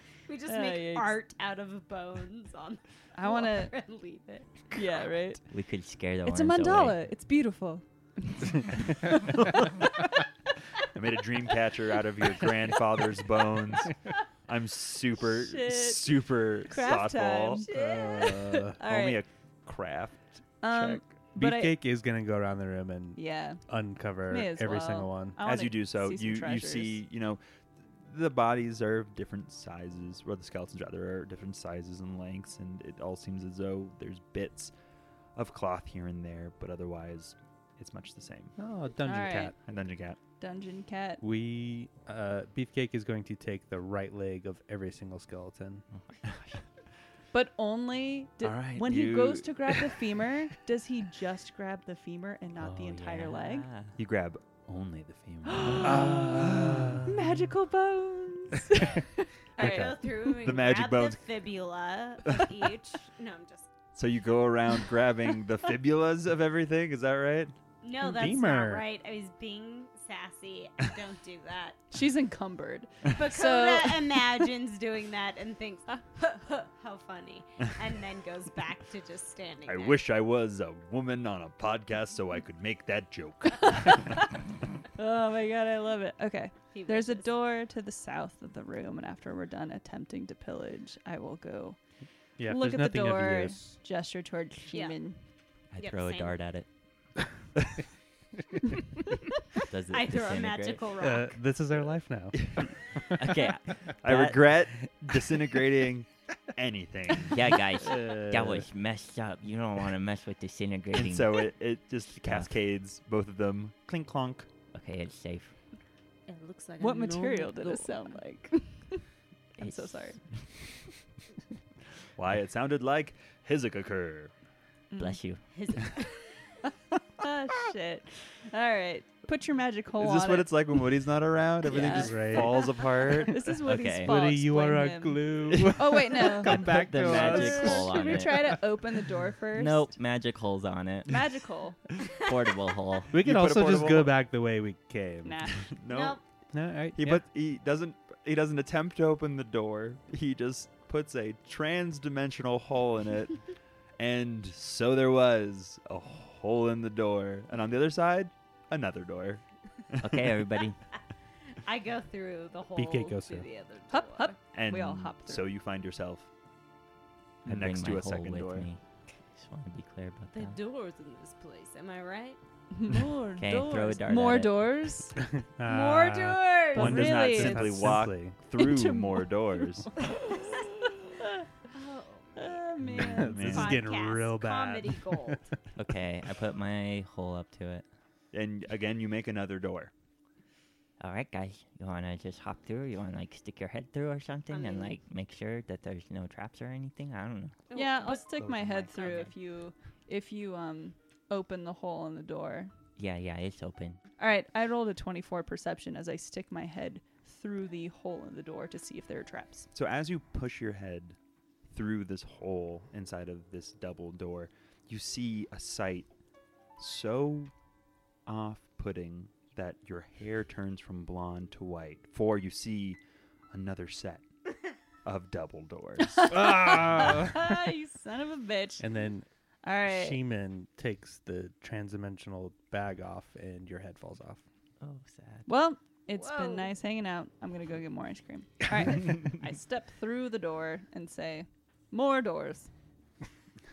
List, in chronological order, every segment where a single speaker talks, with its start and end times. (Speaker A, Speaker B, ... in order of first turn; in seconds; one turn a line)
Speaker A: 0.3-4.6
Speaker B: 0.5-1.2
Speaker B: 3.1-3.8
Speaker B: 4.7-5.4
Speaker C: 5.5-7.0
Speaker B: 6.2-9.2
Speaker D: 9.4-9.7
Speaker D: 10.9-13.9
Speaker D: 14.5-17.6
Speaker B: 15.2-17.7
Speaker A: 17.6-18.7
Speaker E: 17.7-18.8
Speaker B: 18.8-19.2
Speaker D: 18.8-21.1
Speaker B: 20.6-21.8
Speaker E: 21.4-25.4
Speaker B: 23.1-23.6
Speaker B: 24.3-27.0
Speaker D: 25.4-34.7
Speaker D: 35.4-38.5
Speaker E: 38.6-39.5
Speaker B: 39.0-39.5
Speaker D: 39.6-40.2
Speaker B: 40.4-41.2
Speaker E: 41.2-45.9
Speaker C: 45.9-46.6
Speaker B: 47.3-53.7
Speaker D: 48.4-49.9
Speaker C: 52.6-54.0
Speaker D: 54.0-57.0
Speaker B: 55.5-60.0
Speaker E: 55.8-57.1
Speaker A: 59.6-63.7
Speaker E: 59.6-60.0
Speaker D: 60.4-61.2
Speaker D: 62.3-62.5
Speaker D: 64.0-67.5
Speaker A: 67.8-71.8
Speaker E: 68.0-68.9
Speaker B: 71.9-74.5
Speaker A: 73.1-80.1
Speaker D: 79.6-84.3
Speaker B: 83.9-84.1
Speaker B: 85.0-91.8
Speaker A: 86.7-87.3
Speaker E: 92.4-93.7
Speaker B: 92.5-95.2
Speaker A: 94.7-95.0
Speaker C: 95.7-96.7
Speaker A: 95.8-96.4
Speaker C: 99.6-100.9
Speaker A: 99.9-101.4
Speaker E: 101.0-102.7
Speaker D: 102.4-102.7
Speaker C: 103.1-104.4
Speaker D: 104.0-107.4
Speaker E: 105.1-105.5
Speaker C: 107.3-111.5
Speaker E: 107.8-108.7
Speaker D: 110.9-114.5
Speaker C: 112.2-112.5
Speaker C: 114.7-115.5
Speaker A: 116.3-118.2
Speaker B: 116.8-119.0
Speaker B: 119.6-120.2
Speaker C: 119.6-120.4
Speaker D: 122.2-124.3
Speaker B: 124.9-125.2
Speaker C: 125.0-125.4
Speaker A: 125.5-126.3
Speaker B: 127.2-130.5
Speaker D: 130.0-133.5
Speaker B: 131.6-139.9
Speaker E: 131.9-132.6
Speaker C: 133.6-134.1
Speaker E: 134.0-137.8
Speaker C: 136.4-138.7
Speaker C: 139.5-141.2
Speaker B: 141.1-141.8
Speaker C: 142.2-143.1
Speaker E: 143.1-145.5
Speaker D: 143.1-144.2
Speaker B: 145.2-145.6
Speaker D: 145.6-146.2
Speaker A: 145.9-146.2
Speaker E: 146.5-147.2
Speaker D: 147.0-153.4
Speaker D: 154.0-160.3
Speaker C: 160.0-160.8
Speaker A: 161.6-164.4
Speaker E: 162.8-163.5
Speaker B: 163.9-165.5
Speaker D: 164.5-166.3
Speaker D: 167.4-168.7
Speaker C: 167.4-168.8
Speaker C: 169.3-170.6
Speaker A: 170.3-172.4
Speaker B: 172.7-175.2
Speaker C: 173.4-174.7
Speaker E: 175.3-178.3
Speaker A: 175.6-177.0
Speaker B: 176.7-178.0
Speaker D: 176.8-179.9
Speaker B: 178.6-181.5
Speaker A: 181.7-182.6
Speaker B: 182.4-183.5
Speaker E: 182.9-185.4
Speaker D: 183.2-183.9
Speaker A: 183.5-185.5
Speaker C: 185.8-187.8
Speaker D: 188.3-189.9
Speaker C: 191.0-197.6
Speaker A: 194.5-195.0
Speaker A: 197.7-198.4
Speaker B: 197.7-202.7
Speaker A: 198.9-199.3
Speaker C: 203.0-204.0
Speaker B: 204.2-209.7
Speaker D: 209.7-211.2
Speaker D: 211.7-216.1
Speaker D: 216.8-217.5
Speaker D: 218.2-223.0
Speaker D: 223.5-224.2
Speaker D: 225.0-226.6
Speaker B: 226.2-228.9
Speaker E: 226.3-227.6
Speaker E: 228.8-229.3
Speaker B: 229.6-230.2
Speaker E: 229.9-234.4
Speaker C: 234.8-235.5
Speaker B: 235.5-242.7
Speaker A: 236.1-236.7